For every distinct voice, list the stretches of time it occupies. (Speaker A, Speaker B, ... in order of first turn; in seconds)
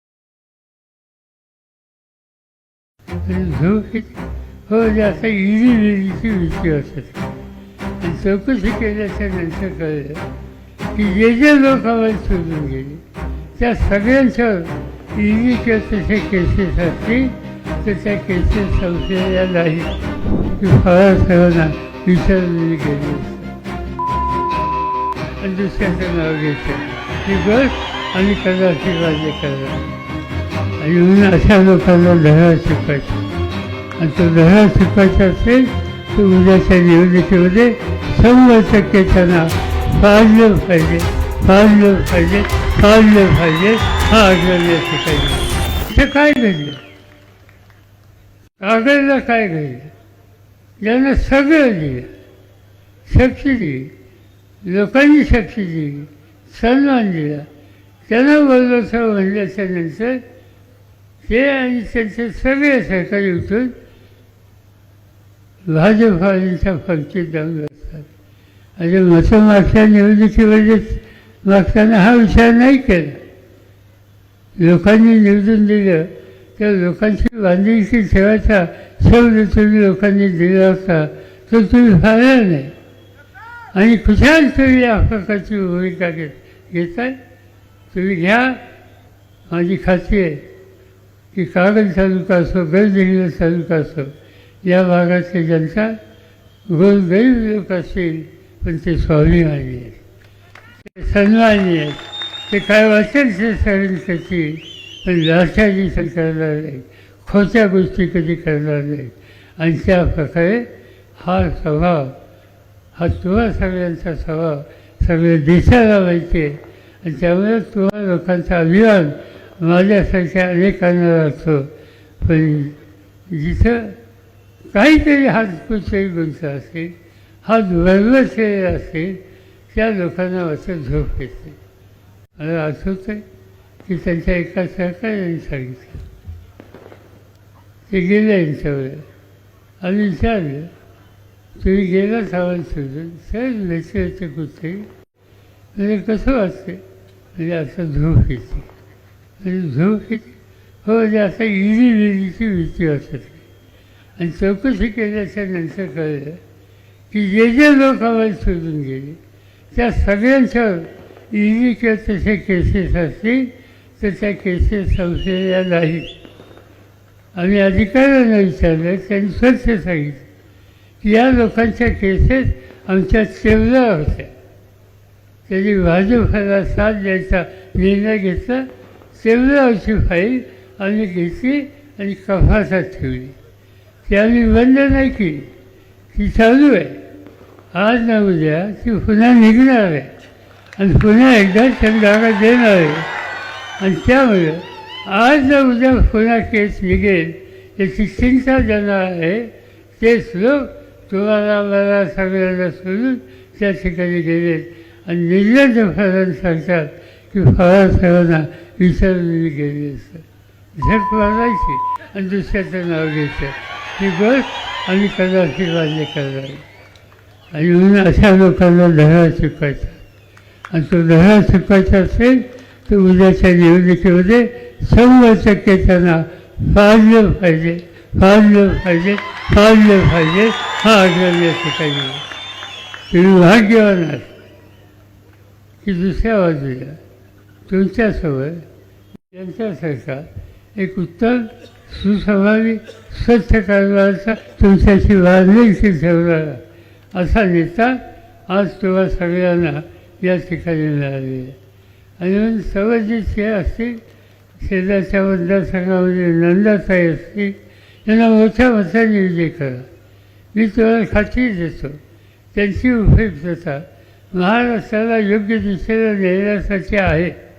Speaker A: 3.2-7.3, 8.0-10.3, 10.9-13.0, 13.5-23.5, 25.4-29.9, 30.8-33.2, 34.0-46.8, 48.6-49.9, 50.8-52.1, 53.0-53.9, 54.6-57.5, 58.0-60.2, 61.2-63.8, 65.7-68.1, 68.8-73.2, 74.5-82.7, 83.7-87.2, 87.9-88.6, 89.5-90.5, 91.3-96.0, 96.7-100.0, 100.8-112.2, 112.9-122.8, 123.3-124.0, 124.7-131.6, 132.4-133.2, 133.8-136.0, 137.9-139.1, 139.8-140.7, 141.6-144.9, 145.7-146.8, 147.3-148.7, 149.4-153.4, 154.2-156.4, 157.1-159.2, 159.7-166.1, 167.3-170.2, 171.0-174.3, 175.5-183.3, 184.0-185.5, 186.1-187.0, 187.7-190.1, 190.8-193.1, 193.8-216.6, 217.5-220.0, 220.7-232.2, 233.1-234.3, 235.8-237.0, 237.7-238.7, 239.3-251.6, 252.2-254.0, 254.6-259.9, 260.5-262.0, 262.5-267.4